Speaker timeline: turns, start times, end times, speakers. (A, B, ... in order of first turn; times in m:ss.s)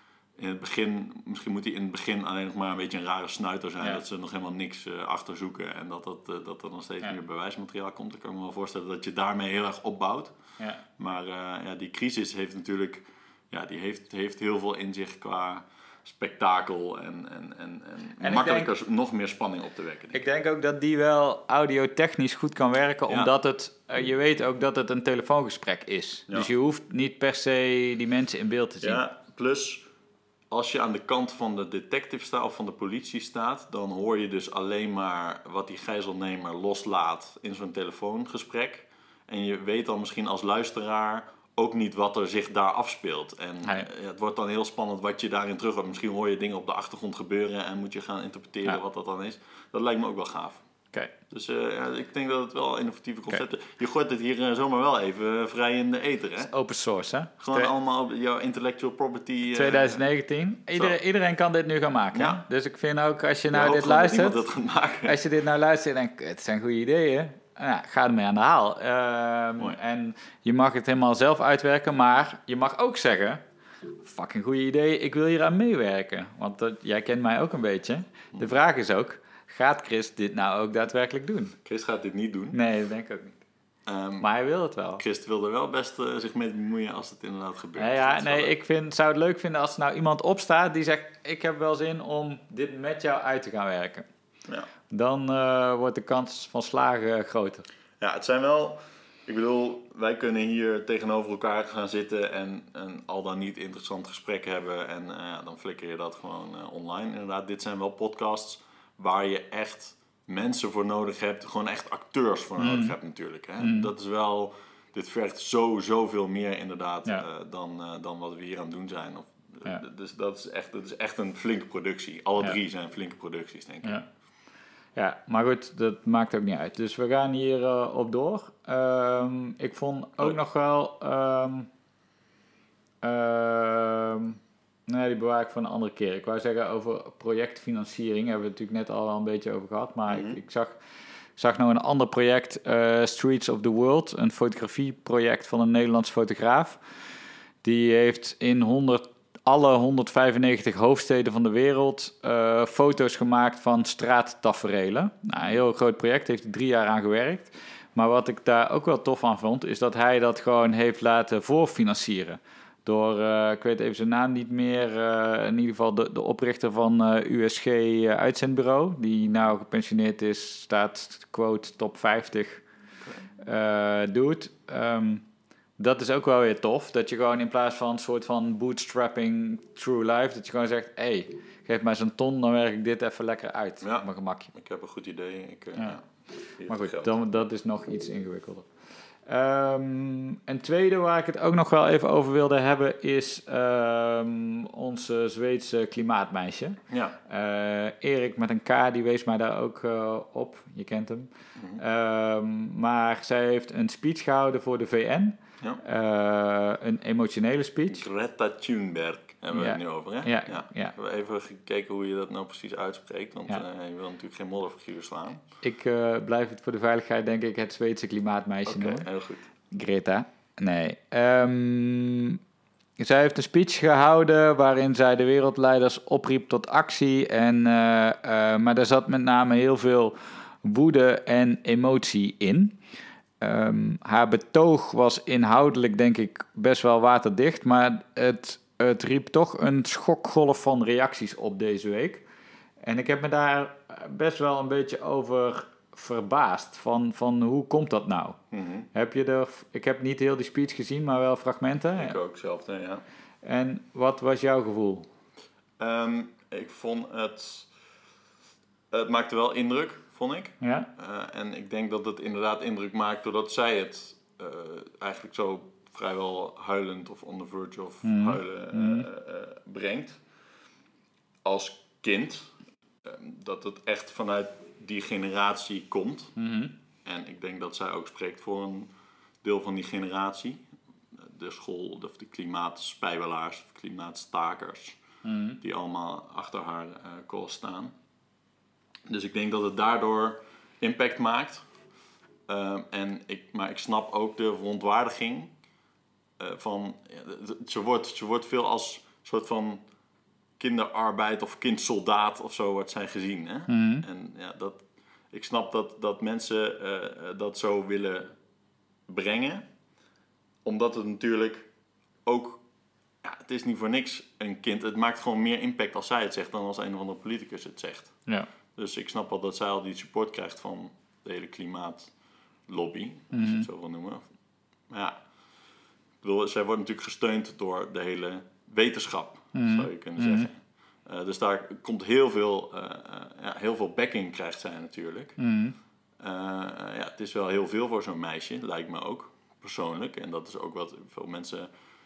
0:00.4-0:10.3 A
0:11.0-0:20.2 A
0:18.2-0:18.7 B
0:20.1-0:29.0 B
0:28.8-0:29.8 A
0:30.5-0:50.6 A
0:51.3-0:56.5 A
0:56.4-0:57.7 B
0:57.4-1:00.0 A
0:59.5-1:04.4 B
1:02.1-1:02.4 A
1:03.5-1:05.2 A
1:05.0-1:13.4 B
1:14.0-1:21.6 B
1:21.6-1:22.6 A
1:22.5-1:23.4 B
1:23.8-1:24.3 A
1:24.2-1:25.0 B
1:25.0-1:28.5 A
1:27.8-1:34.0 B
1:34.9-1:37.6 B
1:38.0-2:04.0 A
1:52.6-1:52.9 B
1:53.6-1:53.9 B
2:05.0-2:11.7 B
2:13.0-2:20.8 B
2:20.1-2:20.4 A
2:21.4-2:26.8 B
2:27.6-2:52.6 B
2:53.4-2:55.2 B
2:55.8-3:04.5 B
3:03.8-3:06.0 A
3:06.6-3:07.1 A
3:06.7-3:08.6 B
3:09.3-3:28.0 B
3:16.9-3:17.2 A
3:21.6-3:21.8 A
3:27.9-3:35.4 A
3:29.5-3:30.9 B
3:35.6-3:39.1 B
3:38.6-3:39.4 A
3:39.7-3:42.4 B
3:43.0-3:52.8 B
3:53.4-4:02.2 B
4:02.8-4:08.4 B
4:08.5-4:08.9 A
4:08.9-4:12.2 B
4:12.0-4:13.0 A
4:13.4-4:15.1 B
4:15.8-4:17.7 A
4:18.9-4:30.2 A
4:20.6-4:20.9 B
4:28.0-4:29.1 B
4:31.4-4:32.5 A
4:33.0-4:36.3 A
4:36.4-4:36.7 B
4:37.0-4:38.9 A
4:39.4-4:40.6 A
4:41.2-4:45.0 A
4:45.2-4:45.6 B
4:45.6-4:47.9 A
4:49.1-4:51.6 A
4:52.5-4:55.5 A
4:56.4-4:59.8 A
5:00.6-5:08.3 A
5:03.7-5:04.0 B
5:09.1-5:09.7 A
5:10.6-5:11.7 A
5:12.2-5:12.6 A
5:13.2-5:18.2 A
5:18.7-5:22.1 A
5:22.7-5:24.2 A
5:23.3-5:23.7 B
5:24.9-5:25.2 A
5:26.2-5:35.4 A
5:29.5-5:30.5 B
5:35.4-5:35.7 B
5:36.2-5:41.7 A